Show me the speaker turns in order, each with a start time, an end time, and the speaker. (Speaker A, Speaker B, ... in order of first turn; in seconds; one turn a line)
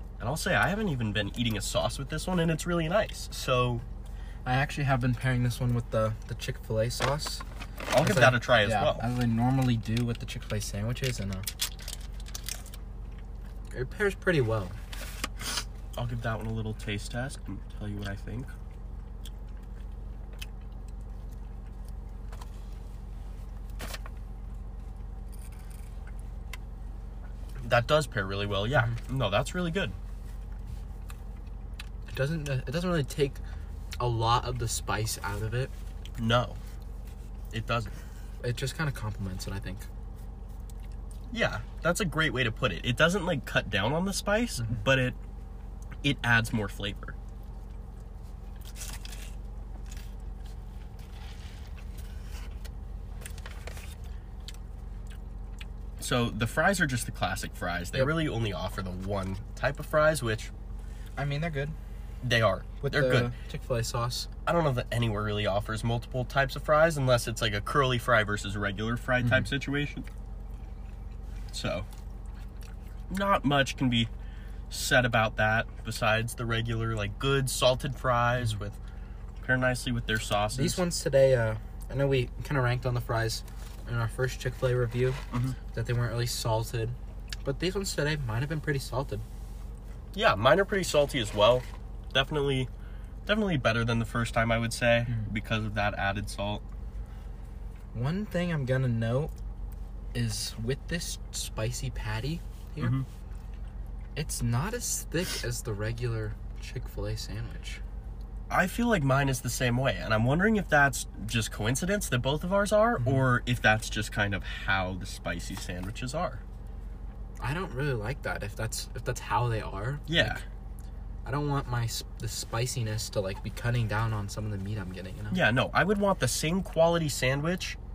Speaker A: 0.2-3.8
Speaker B: 4.4-7.4
Speaker A: 7.9-9.0
Speaker B: 8.0-11.5
Speaker B: 13.7-14.7
Speaker A: 15.9-18.5
Speaker A: 27.6-29.9
Speaker B: 28.7-29.0
Speaker B: 32.1-33.4
Speaker B: 34.0-35.7
Speaker A: 36.2-36.6
Speaker A: 37.5-38.0
Speaker B: 38.4-39.9
Speaker A: 41.3-45.1
Speaker B: 44.6-44.8
Speaker A: 46.0-47.1
Speaker A: 56.0-60.5
Speaker B: 61.2-61.7
Speaker A: 62.2-63.3
Speaker B: 62.8-64.3
Speaker A: 64.5-70.0
Speaker A: 71.5-71.9
Speaker A: 73.1-74.1
Speaker A: 74.7-78.8
Speaker A: 79.4-80.8
Speaker B: 80.5-85.2
Speaker A: 85.3-85.5
Speaker B: 85.7-89.2
Speaker A: 90.1-92.7
Speaker A: 93.2-96.6
Speaker B: 97.9-99.3
Speaker B: 100.1-103.0
Speaker A: 102.8-103.0
Speaker B: 104.2-107.8
Speaker A: 108.5-116.4
Speaker B: 117.4-120.4
Speaker A: 120.1-120.4
Speaker B: 121.2-125.4
Speaker A: 125.3-127.8